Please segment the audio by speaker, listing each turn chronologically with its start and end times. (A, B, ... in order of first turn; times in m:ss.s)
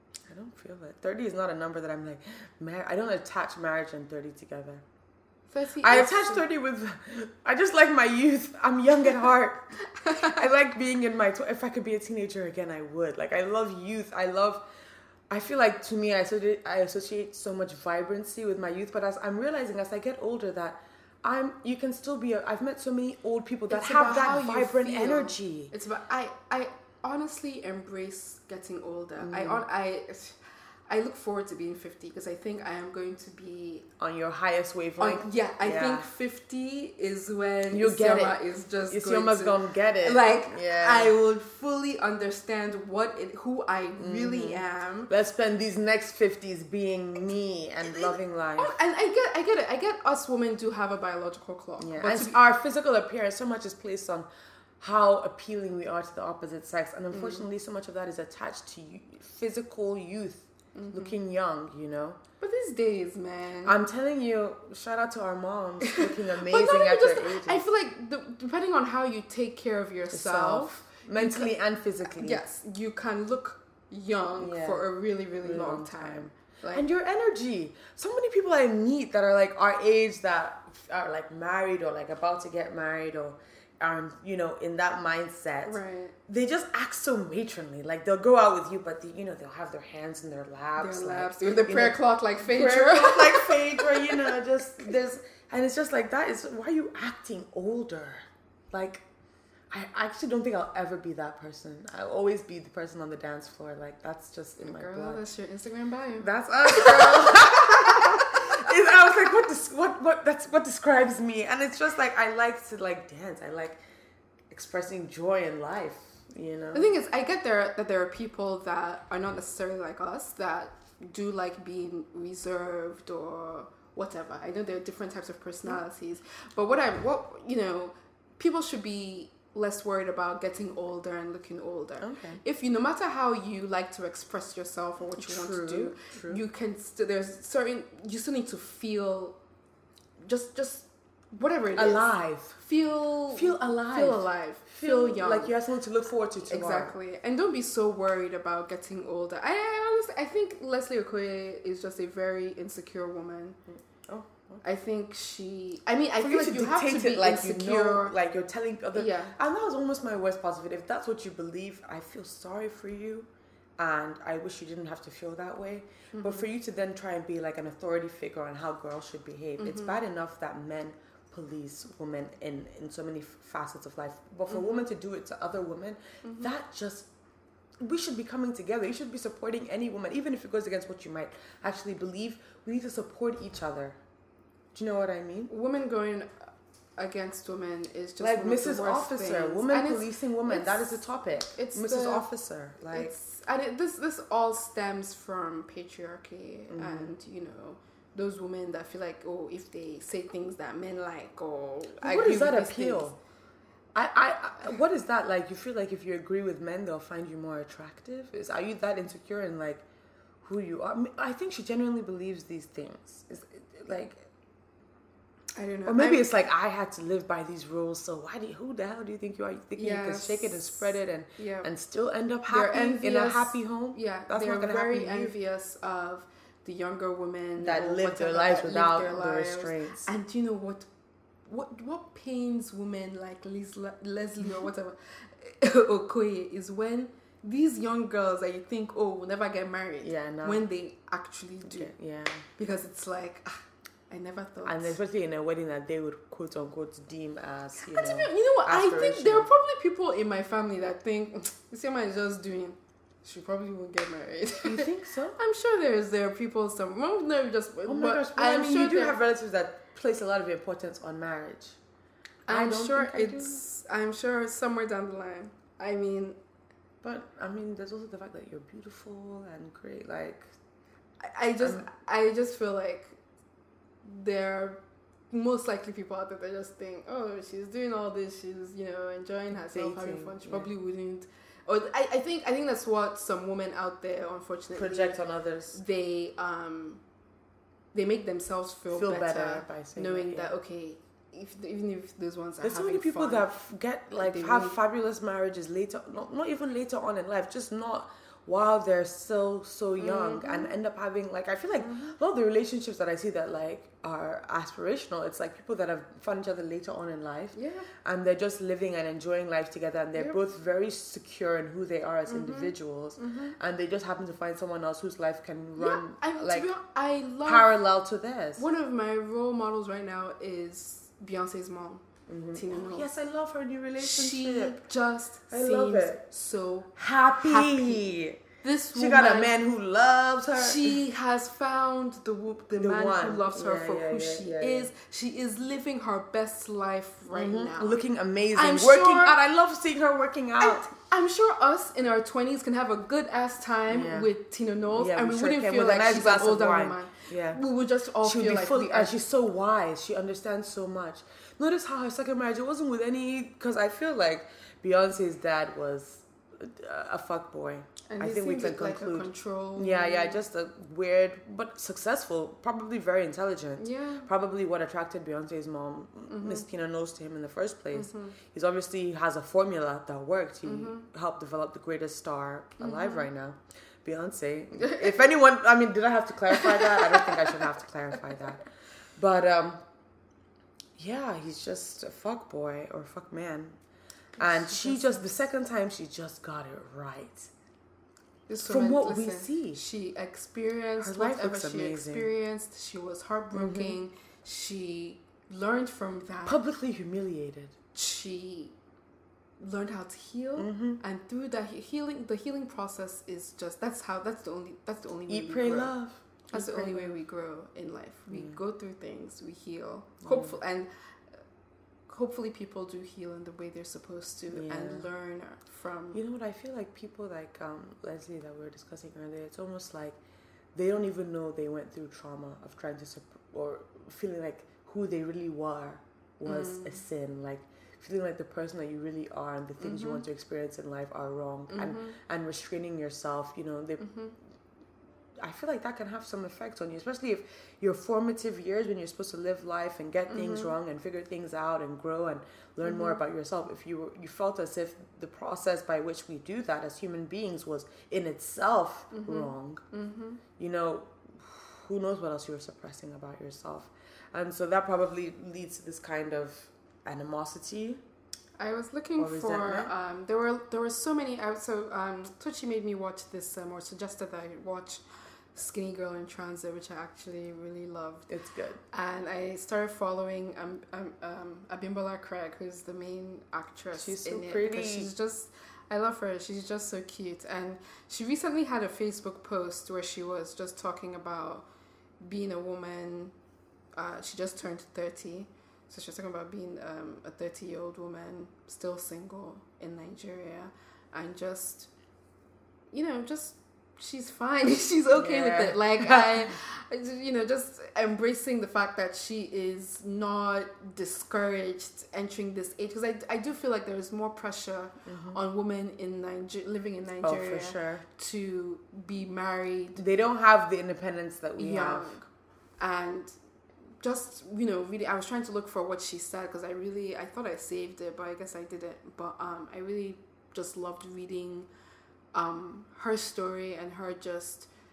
0:00.3-0:04.8 A
0:05.5-0:06.4 B
0:05.8-0:14.6 A
0:10.0-0:10.4 B
0:15.3-0:25.7 A
0:23.7-0:30.4 B
0:29.2-0:29.6 A
0:30.9-0:33.9 B
0:34.0-0:36.0 A
0:35.0-0:45.1 B
0:37.7-0:41.1 A
0:44.0-0:48.7 A
0:47.8-0:52.4 B
0:51.8-0:54.3 A
0:54.8-1:02.2 A
0:57.1-0:57.4 B
1:00.7-1:01.2 B
1:02.4-1:03.8 B
1:03.6-1:07.7 A
1:05.8-1:11.5 B
1:10.1-1:12.4 A
1:12.1-1:16.9 B
1:14.4-1:14.8 A
1:15.4-1:39.0 A
1:25.6-1:26.2 B
1:30.8-1:34.4 B
1:39.7-1:45.3 A
1:44.6-1:48.6 B
1:46.2-1:53.8 A
1:54.5-1:56.9 A
1:56.7-2:19.4 B
2:12.0-2:12.4 A
2:15.2-2:16.4 A
2:20.2-2:25.5 B
2:21.7-2:22.6 A
2:23.3-2:27.0 A
2:26.5-2:33.6 B
2:33.8-2:34.6 A
2:34.6-2:38.2 B
2:36.2-2:57.1 A
2:38.9-2:39.4 B
2:46.1-2:46.4 B
2:49.6-2:50.0 B
2:54.5-2:54.8 B
2:56.2-2:56.5 B
2:57.8-3:04.0 A
3:04.7-3:05.5 A
3:05.5-3:06.3 B
3:07.0-3:11.0 B
3:08.2-3:13.1 A
3:11.5-3:12.3 B
3:12.9-3:23.1 B
3:16.7-3:17.1 A
3:22.0-3:23.2 A
3:23.9-3:29.8 A
3:30.4-3:34.3 A
3:35.6-3:36.2 B
3:35.9-3:45.3 A
3:39.8-3:41.7 B
3:42.5-3:50.9 B
3:47.6-3:50.1 A
3:51.4-4:01.9 B
4:00.0-4:00.6 A
4:01.6-4:02.4 A
4:02.6-4:05.0 B
4:04.6-4:09.5 A
4:07.9-4:19.2 B
4:14.6-4:15.4 A
4:17.9-4:21.8 A
4:22.4-4:26.4 B
4:22.5-4:23.6 A
4:27.0-4:30.5 A
4:31.2-4:33.2 B
4:31.6-4:31.8 A
4:34.0-4:34.8 B
4:35.3-4:45.2 B
4:39.5-4:40.7 A
4:44.7-4:45.8 A
4:45.7-4:47.0 B
4:47.9-4:53.5 B
4:48.9-4:50.5 A
4:52.6-5:16.7 A
4:54.1-4:54.8 B
5:00.0-5:00.7 B
5:01.8-5:02.1 B
5:07.5-5:07.9 B
5:12.3-5:13.6 B
5:15.8-5:17.7 B
5:17.4-5:18.6 A
5:18.6-5:23.1 B
5:22.3-5:24.8 A
5:24.0-5:28.1 B
5:25.5-5:26.2 A
5:27.0-5:28.4 A
5:28.6-5:29.5 B
5:28.9-5:30.9 A
5:30.6-5:38.0 B
5:32.8-5:34.9 A
5:37.3-5:40.9 A
5:38.5-5:39.4 B
5:40.6-5:49.1 B
5:43.9-5:44.3 A
5:44.9-5:47.6 A
5:48.2-6:18.6 A
5:58.1-6:00.4 B
6:03.8-6:04.3 B
6:06.3-6:06.6 B
6:07.9-6:08.3 B
6:10.6-6:11.0 B
6:12.8-6:13.2 B
6:16.5-6:17.4 B
6:19.2-6:19.8 A
6:21.0-6:23.8 A
6:24.4-6:25.2 B
6:24.4-6:27.5 A
6:28.5-6:36.6 B
6:28.7-6:29.8 A
6:31.0-6:32.3 A
6:33.5-6:34.0 A
6:36.4-6:37.8 A
6:37.9-6:38.7 B
6:39.6-6:45.9 B
6:40.6-6:41.0 A
6:45.3-6:47.1 A
6:46.5-6:50.9 B
6:48.3-6:48.6 A
6:50.2-6:50.6 A
6:52.1-6:56.2 B
6:54.5-6:55.1 A
6:56.1-7:00.2 A
7:00.7-7:14.1 A
7:06.4-7:07.0 B
7:09.8-7:10.2 B
7:11.7-7:12.2 B
7:14.0-7:14.3 B
7:15.4-7:29.8 A
7:20.3-7:20.7 B
7:22.8-7:23.2 B
7:29.1-7:30.4 B
7:30.6-7:38.0 A
7:38.6-7:45.0 B
7:39.2-7:39.9 A
7:45.5-7:48.3 B
7:48.3-7:48.8 A
7:48.9-8:01.7 B
7:53.9-7:55.1 A
8:02.2-8:03.3 B
8:03.9-8:11.9 B
8:12.9-8:30.0 B
8:15.2-8:16.5 A
8:25.0-8:25.4 A
8:27.2-8:28.0 A
8:30.0-8:32.2 A
8:31.6-8:32.2 B
8:32.8-8:33.4 B
8:34.0-8:41.7 B
8:42.3-8:44.7 B